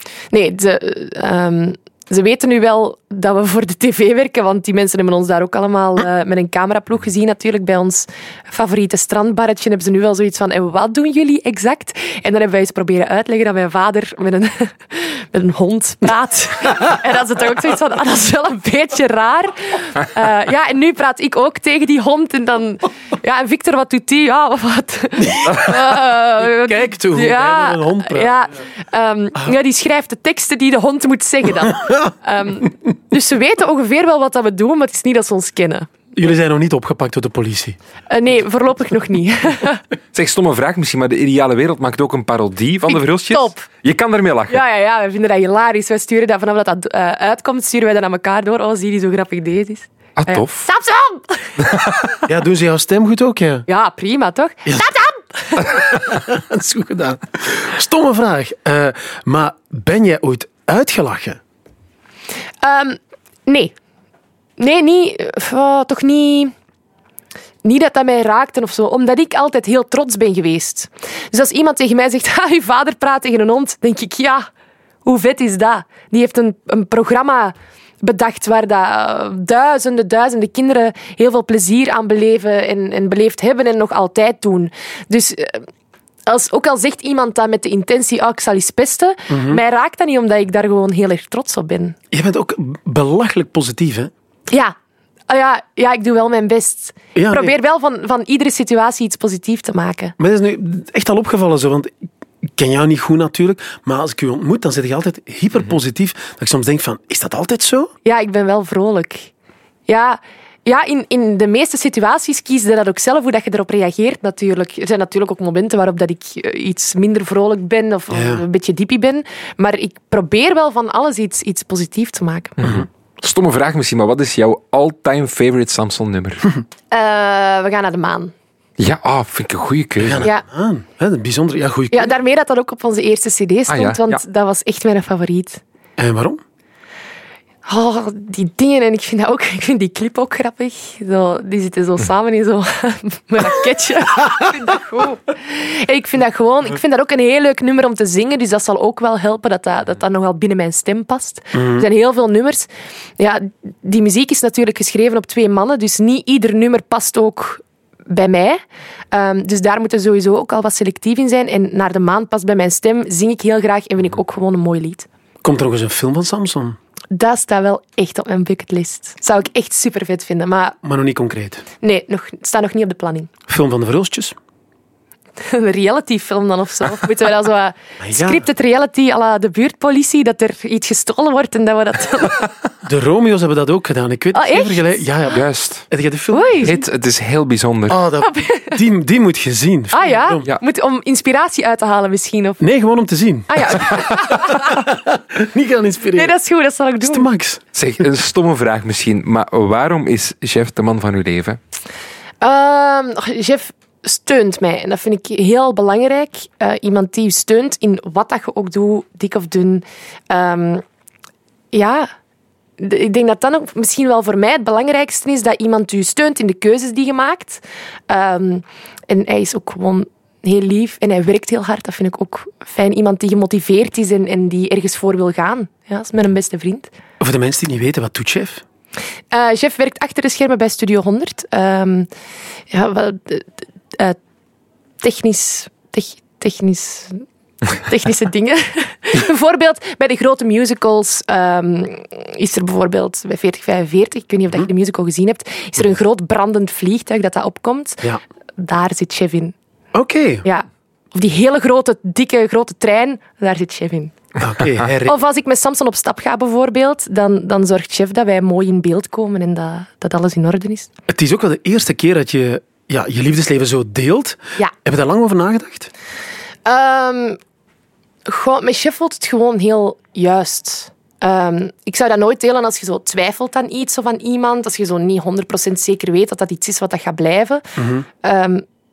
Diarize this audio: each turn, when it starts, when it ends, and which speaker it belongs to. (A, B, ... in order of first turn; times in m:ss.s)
0:00.3-0:35.9 A
0:25.2-0:28.4 B
0:36.1-0:37.8 B
0:38.1-0:39.8 A
0:40.1-0:44.6 C
0:42.9-0:43.6 A
0:44.5-0:51.6 A
0:50.2-0:50.6 C
0:52.2-0:53.6 B
0:53.7-0:55.8 A
0:55.7-1:01.4 B
1:02.6-1:03.7 A
1:04.6-1:06.5 A
1:07.6-1:14.5 A
1:15.0-1:25.6 A
1:26.3-1:32.0 A
1:29.3-1:29.6 B
1:32.1-1:34.1 B
1:34.5-1:34.7 A
1:35.3-1:40.1 A
1:37.1-1:37.5 B
1:40.2-1:41.9 B
1:42.5-1:47.9 B
1:48.0-1:49.3 A
1:49.9-2:02.6 A
1:58.1-1:58.4 B
2:02.6-2:06.4 C
2:06.9-2:08.3 A
2:08.8-2:10.3 C
2:10.0-2:12.1 B
2:11.9-2:15.6 A
2:13.7-2:14.2 C
2:16.0-2:16.4 B
2:17.6-2:38.6 A
2:31.5-2:31.8 B
2:39.1-2:45.1 A
2:45.4-2:46.8 B
2:47.1-2:50.8 A
2:50.8-2:51.6 B
2:51.8-2:53.3 A
2:53.5-2:54.4 B
2:55.4-3:02.5 A
2:58.0-2:58.4 B
3:02.8-3:06.7 B
3:04.3-3:05.0 A
3:05.3-3:05.9 C
3:06.3-3:06.8 A
3:06.6-3:08.0 C
3:07.9-3:10.4 B
3:08.2-3:08.8 A
3:09.9-3:12.6 A
3:12.6-3:16.4 B
3:13.5-3:14.8 A
3:16.1-3:17.3 A
3:17.0-3:17.6 B
3:17.7-3:21.6 C
3:22.4-3:30.8 A
3:31.7-3:32.1 A
3:32.8-3:46.9 A
3:47.2-3:48.6 B
3:49.3-3:52.1 A
3:52.7-3:54.2 A
3:55.0-3:57.2 A
3:57.8-4:08.0 A
4:08.6-4:09.5 A
4:09.9-4:10.4 B
4:10.4-4:14.1 A
4:14.4-4:15.2 B
4:15.0-4:20.9 A
4:21.1-4:25.9 B
4:26.6-4:27.4 A
4:28.2-4:37.7 A
4:37.8-4:38.0 B
4:38.2-4:38.6 A